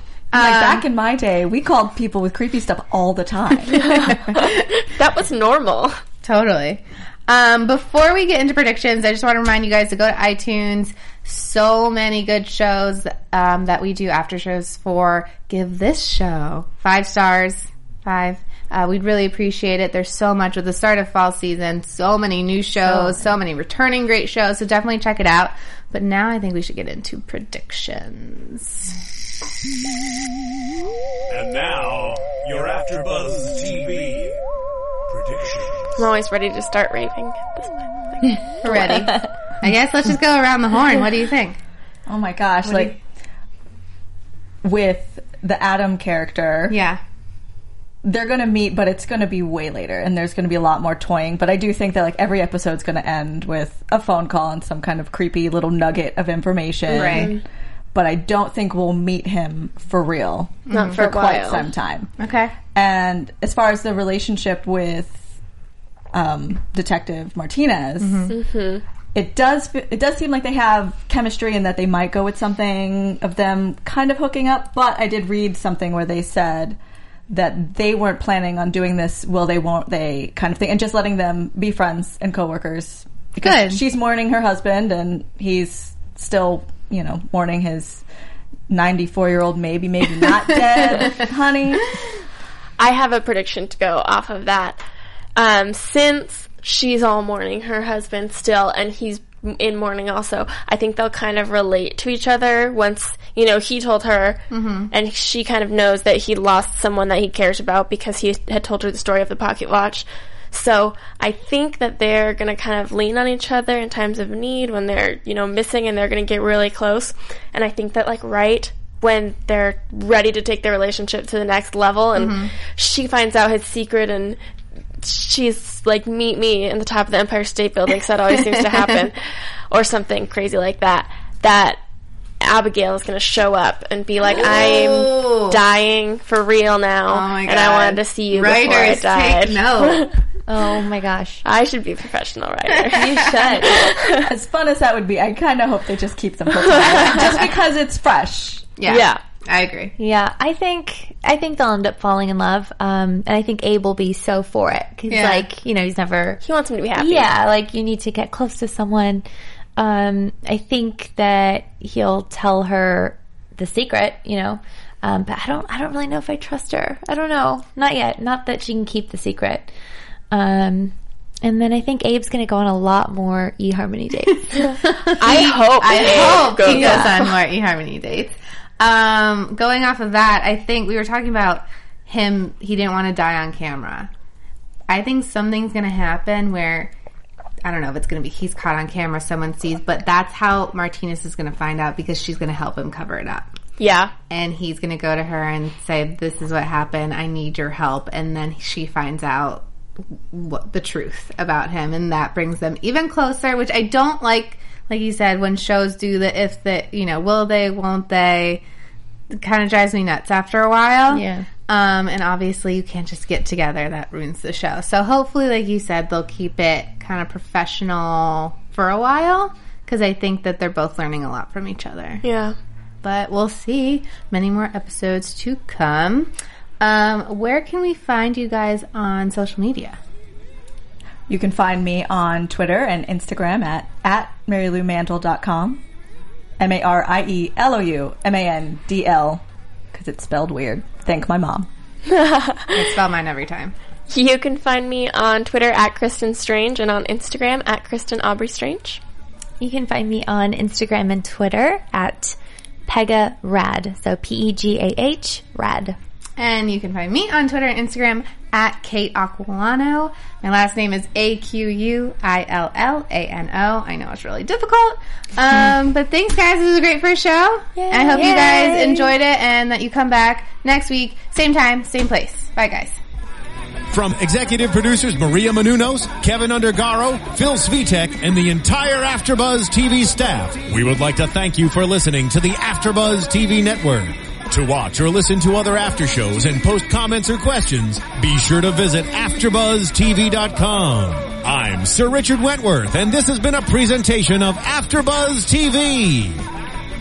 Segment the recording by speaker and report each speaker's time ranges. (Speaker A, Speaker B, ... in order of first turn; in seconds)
Speaker A: 0.3-0.8, 4.0-4.5, 6.2-28.9, 38.2-41.6, 42.6-42.9, 46.7-47.0, 56.9-57.3, 60.7-61.0, 62.2-62.5, 68.0-68.3, 83.4-83.8, 90.9-91.2, 104.5-104.9, 122.1-122.5, 128.5-128.9, 134.2-135.6, 137.1-140.1, 142.9-143.3, 148.8-149.9, 155.1-155.4, 175.0-184.1, 184.9-186.9, 187.6-193.5, 194.3-199.7, 200.3-208.6, 209.3-222.2, 223.0-230.0, 242.7-243.7, 256.4-273.0
Speaker B: 0.3-4.4, 42.1-43.0, 44.6-46.8, 48.0-57.4, 57.9-62.1, 62.7-65.2, 66.1-68.3, 69.1-76.8, 77.3-88.0, 88.7-91.9, 144.2-148.7, 231.3-235.8, 236.6-241.7
Speaker C: 3.8-6.0, 36.0-38.4, 56.9-57.4, 60.7-61.7, 68.3-68.8, 92.8-94.8, 95.3-124.4, 125.0-131.8, 132.4-140.2, 141.4-144.3, 146.5-147.4, 148.9-149.2, 156.4-157.3, 174.6-177.3, 193.8-194.1, 222.2-222.6, 242.1-243.0, 244.1-249.0
Speaker D: 22.8-23.3, 38.7-39.3, 140.5-141.4, 142.9-143.9, 150.0-156.4, 156.9-159.2, 159.8-169.7, 170.3-175.5, 176.6-177.1, 249.6-255.9, 267.8-269.1
Speaker E: 31.3-34.3, 35.1-35.9, 273.9-296.4